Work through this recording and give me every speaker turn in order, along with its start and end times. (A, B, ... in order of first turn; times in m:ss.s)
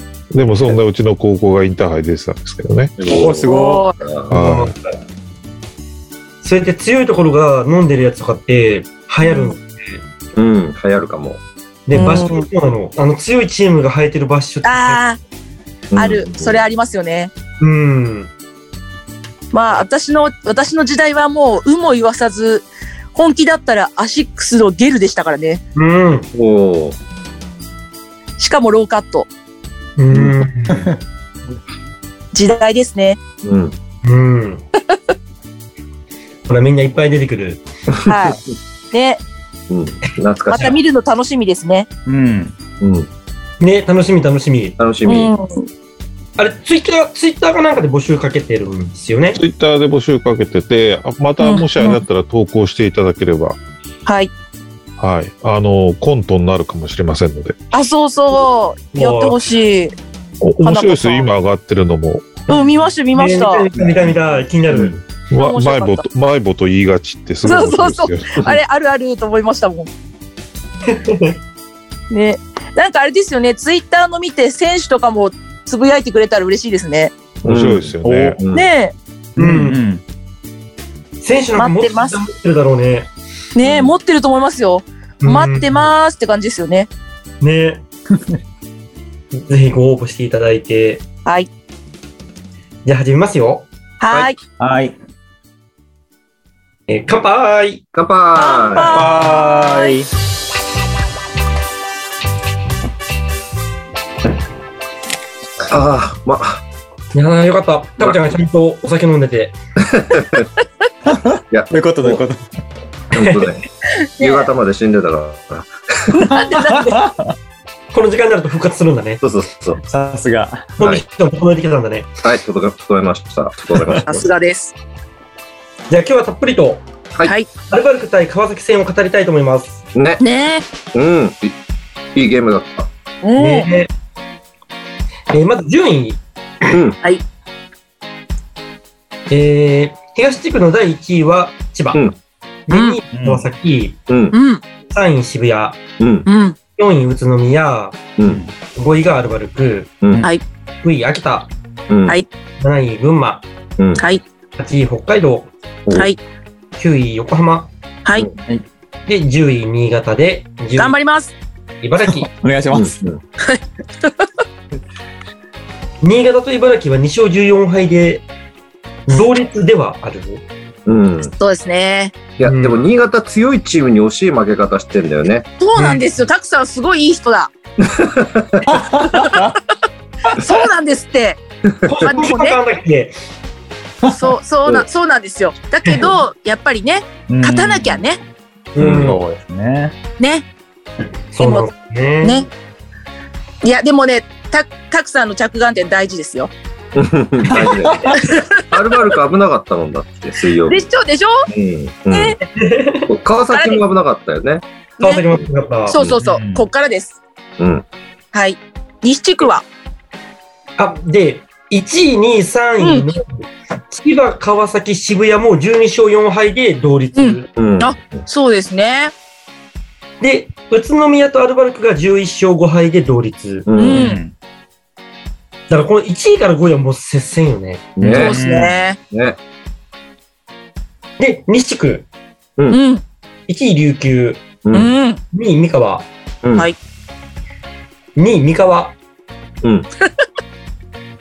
0:00.3-0:02.9 A
0:03.0-0:04.3 B
0:03.1-0:03.9 C
0:03.5-0:03.9 D
0:04.3-0:04.7 A
0:04.3-0:04.8 E
0:06.4-0:10.0 E
0:09.2-0:09.5 D
0:10.4-0:11.4 B
0:11.9-0:15.0 E
0:11.9-0:12.5 D
0:14.6-0:15.2 D
0:15.9-0:16.6 B
0:16.0-0:17.3 D
0:17.6-0:18.3 E
0:19.5-0:25.6 D
0:25.7-0:26.3 E
0:26.3-0:27.0 B
0:28.4-0:29.3 D
0:30.0-0:30.9 E
0:30.1-0:30.4 B
0:30.7-0:31.0 C
0:32.3-0:33.2 D
0:33.4-0:33.7 B
0:34.0-0:34.6 E
0:36.5-0:37.6 E
0:38.0-0:38.4 D
0:38.9-0:39.2 D
0:39.7-0:40.8 B
0:40.5-0:41.9 D
0:42.0-0:42.5 C
0:42.8-0:43.1 B
0:43.6-0:44.8 E
0:44.8-0:45.3 B
0:45.0-0:45.7 D
0:46.4-0:49.4 E
0:49.3-0:53.6 A
0:51.4-0:52.0 D
0:54.0-0:54.3 D
0:55.0-0:57.6 A
0:57.7-1:00.0 D
0:58.9-0:59.4 E
1:00.4-1:02.4 A
1:00.6-1:01.3 D
1:02.5-1:03.7 D
1:02.5-1:04.9 E
1:04.7-1:05.0 B
1:05.3-1:08.4 A
1:05.4-1:06.0 D
1:07.4-1:09.9 D
1:10.8-1:11.4 E
1:12.1-1:17.1 D
1:17.4-1:18.4 A
1:17.4-1:18.7 B
1:18.0-1:18.4 C
1:18.5-1:18.9 D
1:19.4-1:20.0 C
1:19.4-1:19.8 E
1:21.2-1:23.1 E
1:21.6-1:22.2 D
1:23.5-1:26.9 D
1:23.6-1:24.0 B
1:25.2-1:25.9 E
1:27.4-1:27.8 E
1:29.3-1:31.0 E
1:32.8-1:33.7 E
1:34.0-1:34.4 D
1:34.1-1:34.3 B
1:34.6-1:34.9 C
1:36.9-1:37.8 E
1:37.9-1:39.0 B
1:38.3-1:40.0 D
1:38.9-1:40.1 C
1:45.7-1:46.6 B
1:47.1-1:49.6 E
1:49.9-1:50.5 B
1:51.0-1:52.4 C
1:51.5-1:52.2 B
1:53.1-1:53.6 B
1:54.2-1:54.5 D
1:54.2-1:56.2 B
1:56.1-1:57.0 D
1:56.3-1:57.3 C
1:56.4-1:56.8 E
1:57.9-1:59.2 E
1:59.2-1:59.8 B
1:59.9-2:00.8 C
2:00.8-2:02.1 E
2:02.2-2:04.2 B
2:04.0-2:04.8 D
2:05.9-2:06.8 E
2:07.2-2:07.5 D
2:07.7-2:09.8 E
2:09.9-2:10.2 B
2:10.2-2:10.6 D
2:10.9-2:11.6 B
2:12.1-2:12.9 B
2:13.2-2:13.7 D
2:13.4-2:13.9 E
2:15.3-2:16.2 E
2:16.7-2:17.0 B
2:19.3-2:22.0 E
2:22.7-2:24.0 E
2:22.7-2:23.0 D
2:23.1-2:23.4 C
2:24.1-2:24.3 B
2:24.3-2:24.6 D
2:24.9-2:25.8 E
2:26.0-2:26.3 B
2:26.2-2:26.6 D
2:26.8-2:28.0 E
2:28.2-2:28.5 C
2:28.7-2:29.9 E
2:30.0-2:30.3 B
2:30.8-2:31.5 E
2:31.9-2:32.2 B
2:32.6-2:33.4 E
2:34.6-2:35.5 E
2:35.9-2:36.2 D
2:36.8-2:37.7 E
2:39.0-2:41.0 E
2:40.8-2:41.3 D
2:41.8-2:42.3 E
2:42.0-2:43.0 C
2:42.7-2:43.2 B
2:46.0-2:48.2 E
2:49.1-2:50.4 E
2:50.8-2:51.3 B
2:51.4-2:52.1 D
2:52.4-2:55.5 B
2:52.4-2:52.8 E
2:55.6-2:57.5 D
2:55.8-2:56.0 E
2:57.8-2:58.7 B
2:58.7-2:59.5 C
2:59.0-2:59.5 D
3:00.3-3:01.4 D
3:01.8-3:03.1 E
3:02.0-3:02.6 D
3:04.0-3:08.2 D
3:07.3-3:08.0 C
3:08.7-3:09.2 E
3:08.8-3:09.1 B
3:08.8-3:10.0 C
3:10.2-3:10.4 D
3:11.3-3:12.4 E
3:11.4-3:11.7 D
3:12.2-3:12.5 D
3:13.6-3:16.5 D
3:16.9-3:20.8 B
3:17.5-3:18.2 C
3:18.2-3:18.6 D
3:20.7-3:21.4 D
3:21.5-3:22.4 B
3:22.1-3:22.4 D
3:22.6-3:23.1 E
3:23.1-3:24.6 B
3:23.5-3:23.8 D
3:25.0-3:26.0 E
3:25.9-3:27.2 D
3:26.2-3:26.7 C
3:27.6-3:27.8 B
3:28.3-3:29.6 D
3:30.8-3:37.5 E
3:32.8-3:33.0 D
3:37.1-3:39.1 D
3:37.6-3:38.2 B
3:40.2-3:43.6 E
3:43.6-3:44.1 B
3:43.8-3:44.2 D
3:43.8-3:44.3 C
3:45.7-3:47.9 E
3:48.0-3:48.4 B
3:48.0-3:48.8 C
3:48.1-3:49.0 D
3:49.1-3:49.4 B
3:51.2-3:52.1 E
3:52.7-3:53.0 D
3:53.5-3:54.4 E
3:54.6-3:54.9 B
3:54.7-3:55.2 D
3:55.3-3:56.1 E
3:56.4-3:56.7 B
3:58.2-3:58.9 E
3:59.6-3:59.9 B